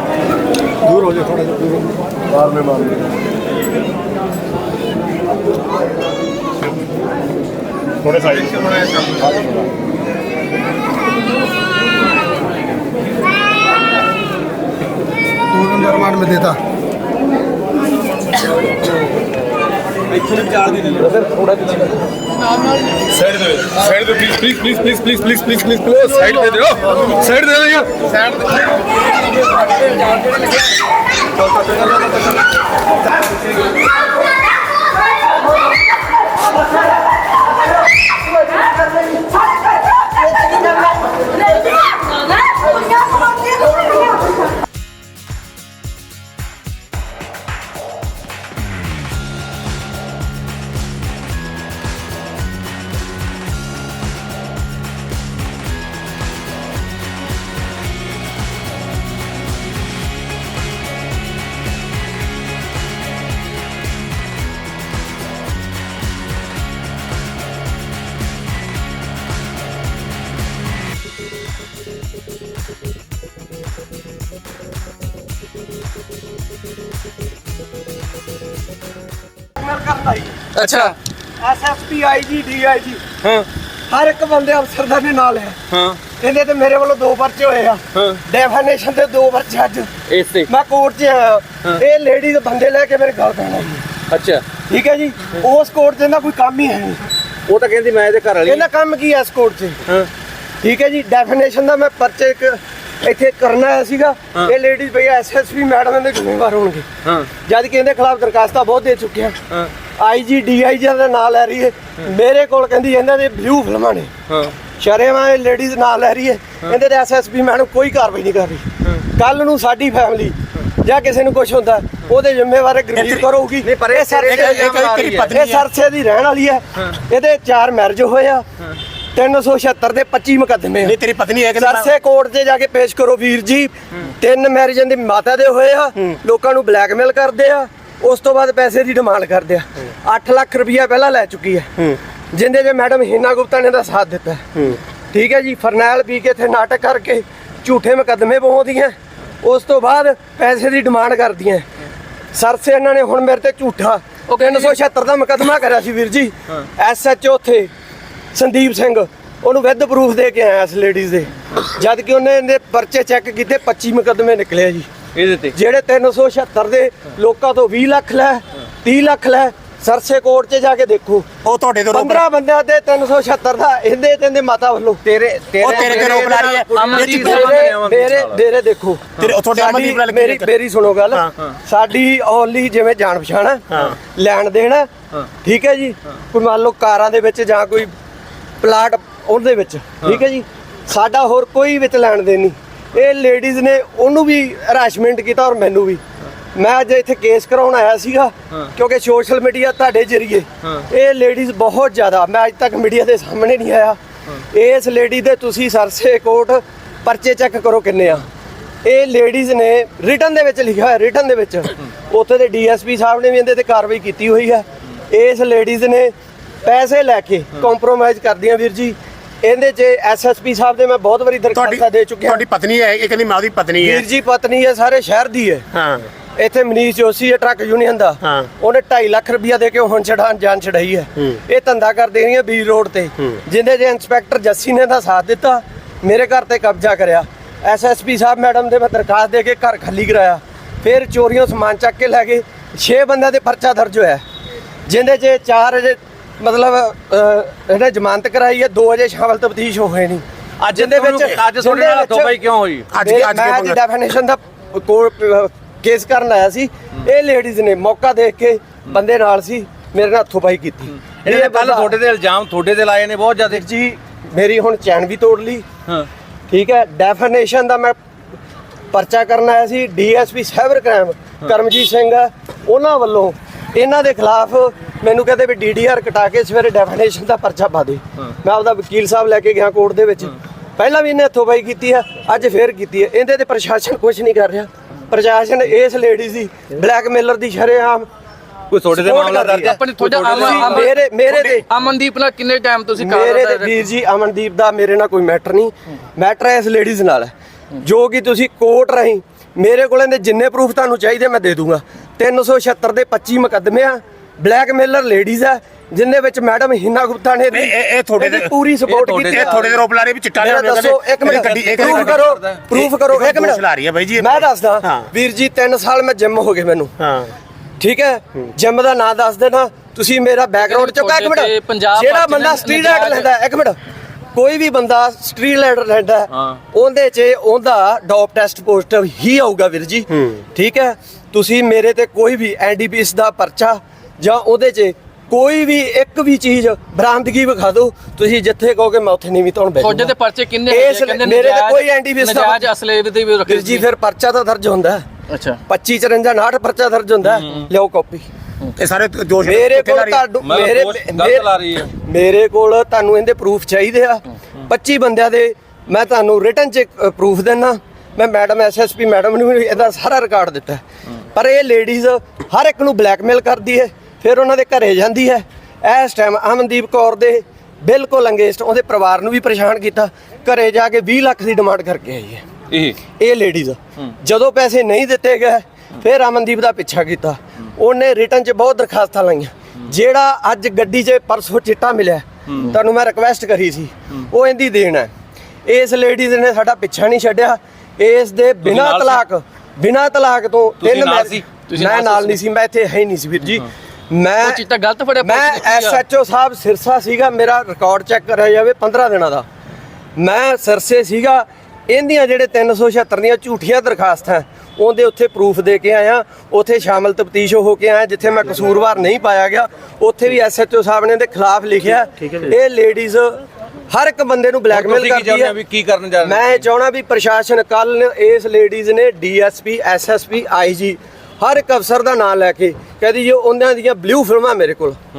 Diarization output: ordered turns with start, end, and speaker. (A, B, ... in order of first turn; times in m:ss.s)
0:01.1-0:01.6 A
0:02.3-0:02.9 A
0:08.1-0:09.0 B
0:15.7-0:16.5 A
0:20.2-0:21.1 C
0:23.1-0:28.2 D
1:19.6-1:23.0 A
1:20.6-1:21.0 E
1:23.9-1:25.6 A
1:25.7-1:26.0 C
1:26.2-1:29.9 A
1:27.9-1:28.2 C
1:30.1-1:30.5 C
1:30.5-1:33.9 A
1:34.1-1:34.4 C
1:34.7-1:37.0 A
1:37.5-1:38.7 C
1:38.4-1:39.8 A
1:40.6-1:46.9 A
1:47.0-1:47.3 C
1:47.4-1:49.4 A
1:50.0-1:54.1 A
1:54.8-2:08.4 A
2:03.0-2:03.3 B
2:03.6-2:05.3 C
2:03.8-2:05.7 B
2:09.2-2:11.0 A
2:10.8-2:11.9 B
2:11.5-2:21.7 A
2:22.3-2:24.4 A
2:25.1-2:31.7 A
2:32.3-2:37.7 A
2:34.3-2:34.7 E
2:38.3-2:44.9 A
2:45.2-2:45.6 C
2:45.5-2:51.3 A
2:51.4-2:52.2 B
2:51.9-2:55.0 A
2:55.0-2:58.4 C
2:55.6-2:57.5 B
2:55.6-2:56.5 A
2:56.7-2:57.6 E
2:57.0-3:04.9 A
2:59.2-3:00.5 B
3:03.7-3:04.0 B
3:05.4-3:07.9 A
3:08.6-3:16.0 A
3:16.5-3:24.0 A
3:24.5-3:28.2 A
3:28.8-3:36.1 A
3:36.6-3:42.5 A
3:41.6-3:44.0 B
3:43.8-3:45.7 A
3:45.7-3:46.1 B
3:46.4-4:04.2 A
3:48.2-3:48.5 B
4:04.9-4:12.4 A
4:10.6-4:12.9 C
4:12.9-4:13.8 B
4:13.0-4:21.9 A
4:21.2-4:23.6 C
4:23.5-4:25.7 A
4:26.5-4:28.0 A
4:28.9-4:48.1 A
4:48.7-4:50.9 C
4:48.9-4:51.7 A
4:49.6-4:53.8 E
4:53.0-5:09.6 A
5:07.5-5:08.5 B
5:08.9-5:09.8 C
5:09.3-5:15.1 B
5:10.4-5:13.6 A
5:11.3-5:12.7 C
5:14.2-5:16.9 A
5:17.0-5:17.3 B
5:17.8-5:23.8 A
5:20.6-5:23.3 E
5:24.3-5:40.1 A
5:39.8-5:43.9 E
5:40.7-5:42.7 A
5:43.4-5:45.0 A
5:45.3-5:45.6 E
5:45.7-5:48.3 A
5:47.3-5:47.7 C
5:48.8-5:50.2 B
5:49.4-6:00.8 A
5:50.4-5:51.9 C
6:01.3-6:12.4 A
6:12.7-6:13.0 C
6:13.2-6:25.1 A
6:25.7-6:34.6 A
6:28.6-6:29.2 C
6:30.8-6:31.5 C
6:31.7-6:32.4 E
6:34.4-6:36.0 E
6:35.2-6:39.4 A
6:40.2-6:53.4 A
6:53.9-6:55.6 A
6:54.7-6:56.6 C
6:56.2-7:05.0 A